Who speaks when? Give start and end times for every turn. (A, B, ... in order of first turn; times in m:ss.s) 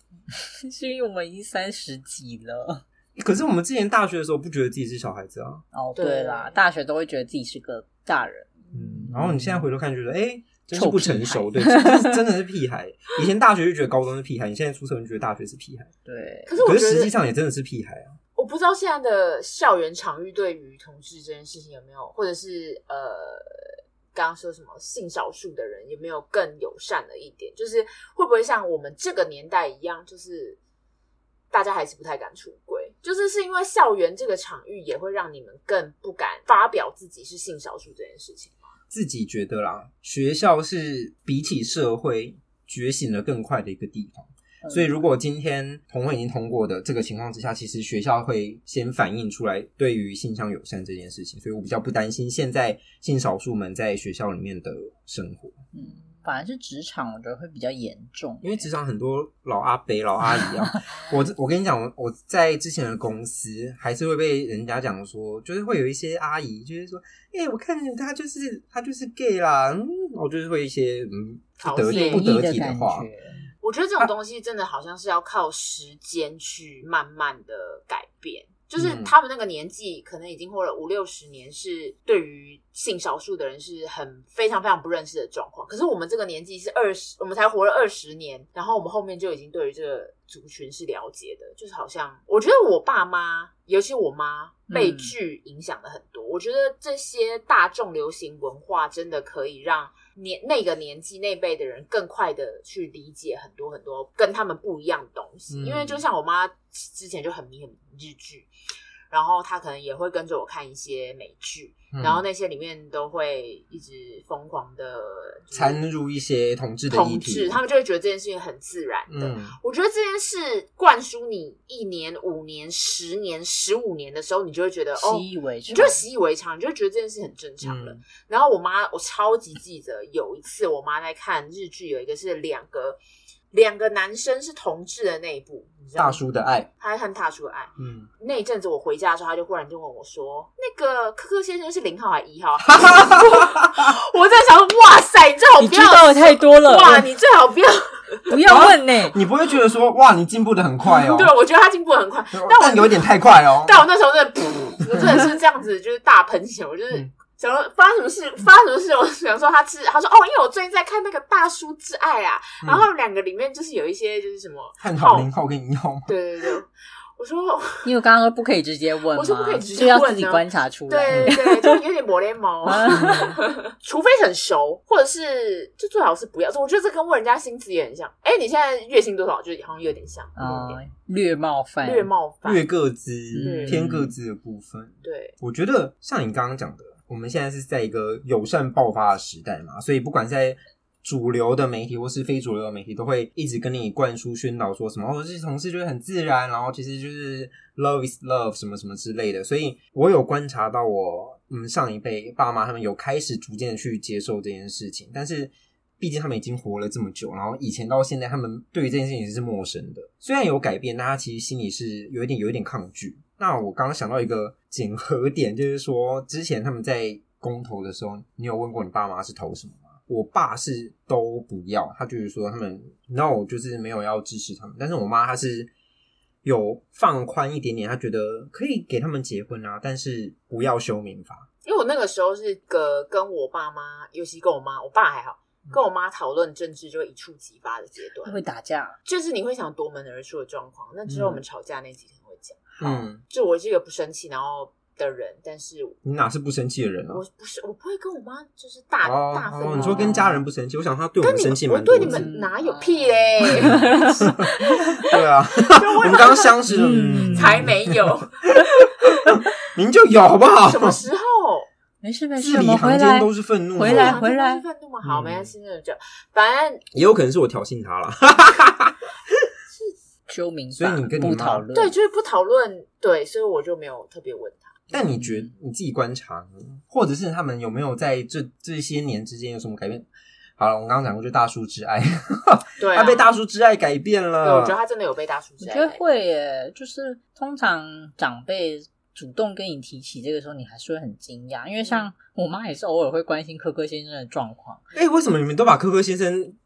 0:00.3-0:02.8 A
0:03.2-0:05.6 B
0:05.7-0:09.6 A
0:06.0-0:06.6 C
0:08.7-0:15.9 B
0:10.7-0:12.2 A
0:16.0-0:16.5 A
0:16.4-0:17.1 C
0:16.6-0:18.2 B
0:18.4-0:30.6 C
0:31.5-0:38.7 C
0:38.9-0:55.6 B
0:44.6-0:45.0 A
0:55.7-0:58.7 A
0:55.8-0:56.2 C
0:58.4-1:13.1 B
1:00.9-1:01.2 C
1:11.6-1:12.3 C
1:11.9-1:13.3 A
1:13.6-1:48.5 C
1:18.8-1:19.1 B
1:34.7-1:35.1 A
1:45.5-1:46.0 B
1:49.1-1:55.8 C
1:51.9-1:52.2 B
1:55.5-1:57.6 B
1:56.9-2:13.0 C
1:59.1-1:59.6 B
2:05.0-2:06.0 A
2:07.6-2:08.0 B
2:13.5-2:16.2 C
2:16.0-2:16.7 B
2:16.8-2:28.4 C
2:17.8-2:18.1 B
2:22.6-2:23.9 B
2:25.6-2:27.0 A
2:28.3-2:29.2 A
2:28.4-2:31.3 B
2:30.9-2:45.3 C
2:32.3-2:33.8 B
2:34.9-2:35.2 B
2:42.6-2:42.9 B
2:44.8-2:46.1 B
2:46.0-2:47.9 C
2:47.8-2:51.8 A
2:49.1-3:00.8 C
2:51.1-2:51.3 B
2:52.6-2:53.4 A
2:52.9-2:53.3 B
3:00.4-3:02.1 A
3:01.8-3:02.6 C
3:02.4-3:45.7 B
3:03.3-3:04.1 A
3:03.4-3:03.8 C
3:05.0-3:05.3 C
3:46.4-3:51.5 B
3:51.6-3:58.4 C
3:58.2-3:59.0 A
3:59.0-4:06.0 C
4:01.1-4:01.4 B
4:02.8-4:03.2 B
4:06.0-4:07.2 B
4:07.1-4:10.3 C
4:09.0-4:12.3 B
4:09.7-4:10.4 A
4:11.2-4:14.7 C
4:12.0-4:15.0 A
4:13.6-4:21.0 B
4:15.7-4:16.6 C
4:16.7-4:17.7 A
4:17.3-4:19.0 C
4:20.6-4:21.7 C
4:22.0-4:24.6 A
4:22.4-4:24.2 B
4:23.8-4:26.8 C
4:25.0-4:25.5 B
4:26.9-4:29.4 B
4:30.3-4:31.9 A
4:30.7-4:31.6 B
4:31.7-4:35.0 C
4:34.9-4:40.0 B
4:35.2-4:35.5 A
4:40.6-4:44.8 B
4:42.8-4:43.3 C
4:44.4-4:46.0 C
4:45.6-4:54.8 A
4:54.9-4:56.6 B